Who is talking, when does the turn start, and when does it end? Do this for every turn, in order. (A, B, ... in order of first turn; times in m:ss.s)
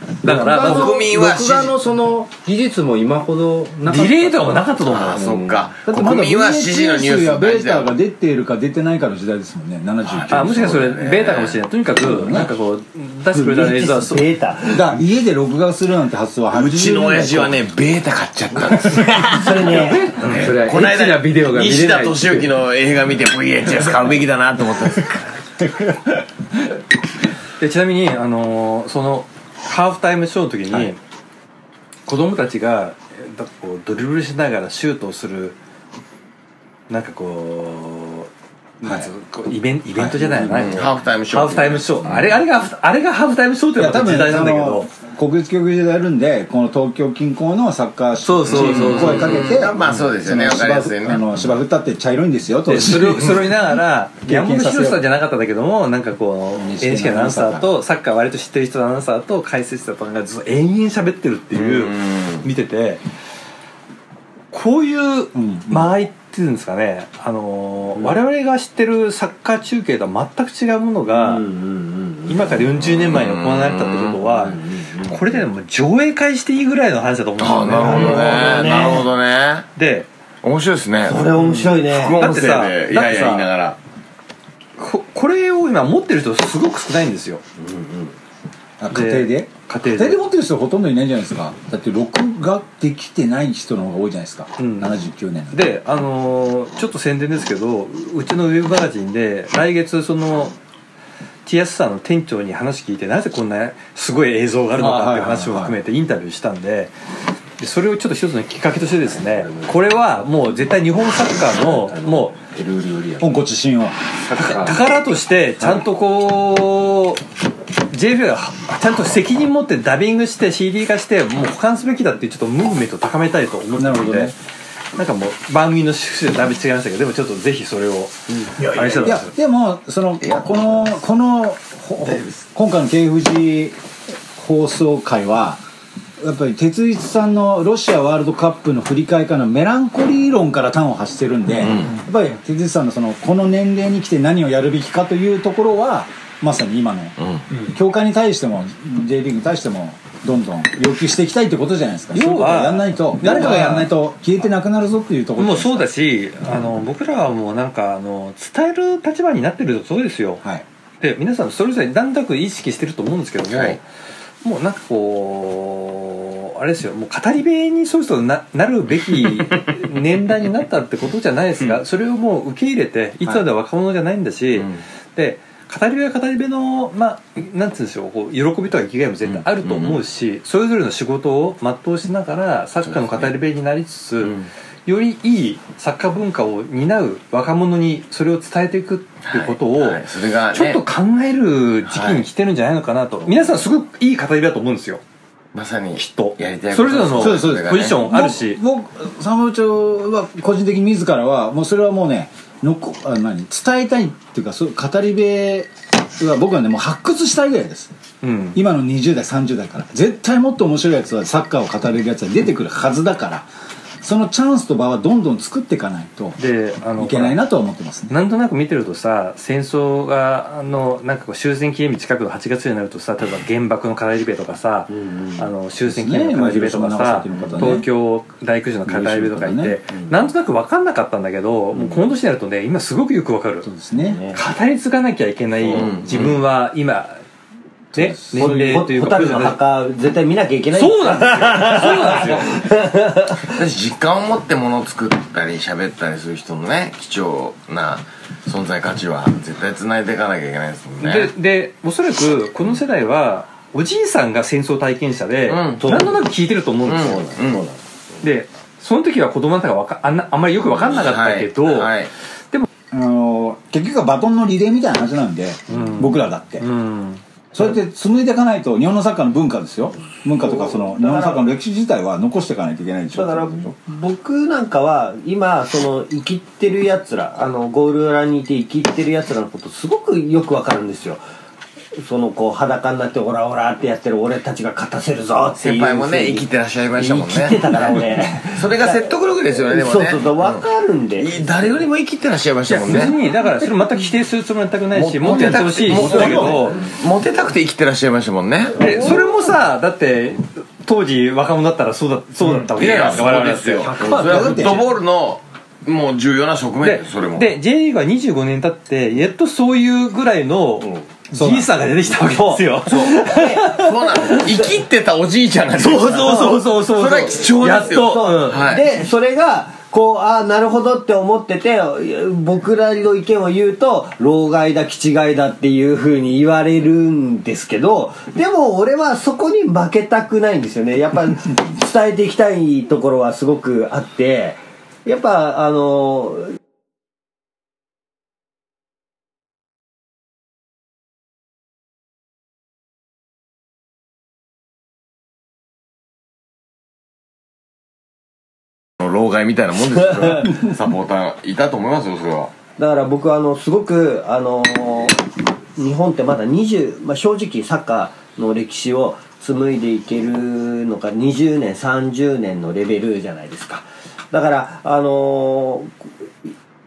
0:00.2-0:00.9 A
0:00.3-0:05.7 B
0:00.5-0:01.8 C
0:03.8-0:05.3 A
0:04.8-0:07.9 C
0:05.8-0:10.8 D
0:10.1-0:11.6 C
0:10.3-0:14.2 A
0:12.0-0:12.5 D
0:13.3-0:14.9 E
0:14.7-0:17.6 D
0:16.5-0:25.3 C
0:19.1-0:20.1 E
0:19.9-0:22.6 B
0:27.6-0:31.0 A
0:32.1-0:35.6 A
0:36.9-0:38.3 A
0:38.8-0:44.9 A
0:38.8-0:39.1 D
0:40.0-0:40.4 D
0:40.4-0:42.4 C
0:43.8-0:53.6 D
0:48.2-0:49.6 A
0:48.5-0:51.3 C
0:52.7-1:03.0 A
0:54.2-0:55.1 D
0:56.5-0:57.7 D
1:01.5-1:02.4 C
1:04.5-1:11.4 A
1:05.3-1:05.9 D
1:11.1-1:12.5 E
1:12.3-1:19.0 A
1:12.8-1:14.2 C
1:14.4-1:15.3 E
1:17.4-1:19.7 C
1:17.8-1:19.1 E
1:19.8-1:20.1 A
1:20.4-1:23.8 C
1:21.0-1:22.2 E
1:22.2-1:23.5 A
1:24.8-1:27.4 A
1:27.6-1:28.1 E
1:28.8-1:35.6 D
1:28.9-1:30.2 A
1:34.6-1:34.9 A
1:35.5-1:40.5 A
1:41.4-1:46.9 A
1:44.8-1:45.7 D
1:47.6-1:52.4 A
1:49.1-1:49.7 B
1:51.6-1:53.4 B
1:53.2-1:54.0 D
1:54.2-1:54.8 B
1:54.3-1:57.2 A
1:57.9-2:04.4 A
2:03.8-2:04.4 D
2:05.0-2:09.3 A
2:08.9-2:13.8 D
2:10.2-2:10.9 C
2:12.0-2:12.4 C
2:14.4-2:15.6 D
2:16.2-2:35.9 D
2:21.6-2:21.9 C
2:27.2-2:27.4 C
2:32.1-2:33.9 A
2:35.4-2:40.4 A
2:41.0-2:43.8 A
2:43.5-2:43.8 C
2:44.4-3:15.0 A
2:54.5-2:54.8 C
2:59.2-3:00.0 C
3:02.8-3:03.4 C
3:04.2-3:04.5 C
3:09.2-3:10.8 C
3:11.9-3:12.2 C
3:15.5-3:18.0 C
3:16.0-3:18.6 A
3:17.2-3:27.9 D
3:28.2-3:28.6 A
3:28.5-3:33.5 D
3:34.0-3:36.4 D
3:36.4-3:37.4 A
3:37.0-3:38.2 D
3:38.1-3:53.7 A
3:44.9-3:45.4 E
3:45.8-3:47.9 D
3:47.4-3:47.8 E
3:48.8-3:49.8 D
3:53.6-3:54.2 D
3:54.1-3:54.4 E
3:54.3-3:57.2 A
3:55.6-3:56.4 C
3:57.9-3:58.8 D
3:57.9-3:59.6 A
3:58.4-4:03.6 E
4:00.7-4:02.6 A
4:03.5-4:11.3 C
4:11.0-4:17.4 A
4:15.5-4:16.1 C
4:16.8-4:17.6 C
4:17.4-4:17.8 E
4:18.2-4:21.9 A
4:20.7-4:22.1 C
4:22.9-4:26.7 D
4:25.7-4:27.2 A
4:27.5-4:33.8 D
4:30.4-4:31.4 E
4:33.2-4:41.2 E
4:42.0-4:49.1 E
4:45.6-4:50.6 C
4:49.7-4:51.3 E
4:51.2-4:53.2 C
4:52.7-4:56.8 A
4:54.9-4:58.8 C
4:58.8-5:04.9 A
5:02.7-5:07.5 C
5:04.0-5:04.7 B
5:06.8-5:14.4 A
5:11.3-5:11.7 D
5:12.1-5:14.5 E
5:12.9-5:18.9 C
5:15.8-5:18.7 A
5:16.1-5:16.7 E
5:17.6-5:36.5 E
5:49.0-5:52.5 C
5:52.8-6:06.0 E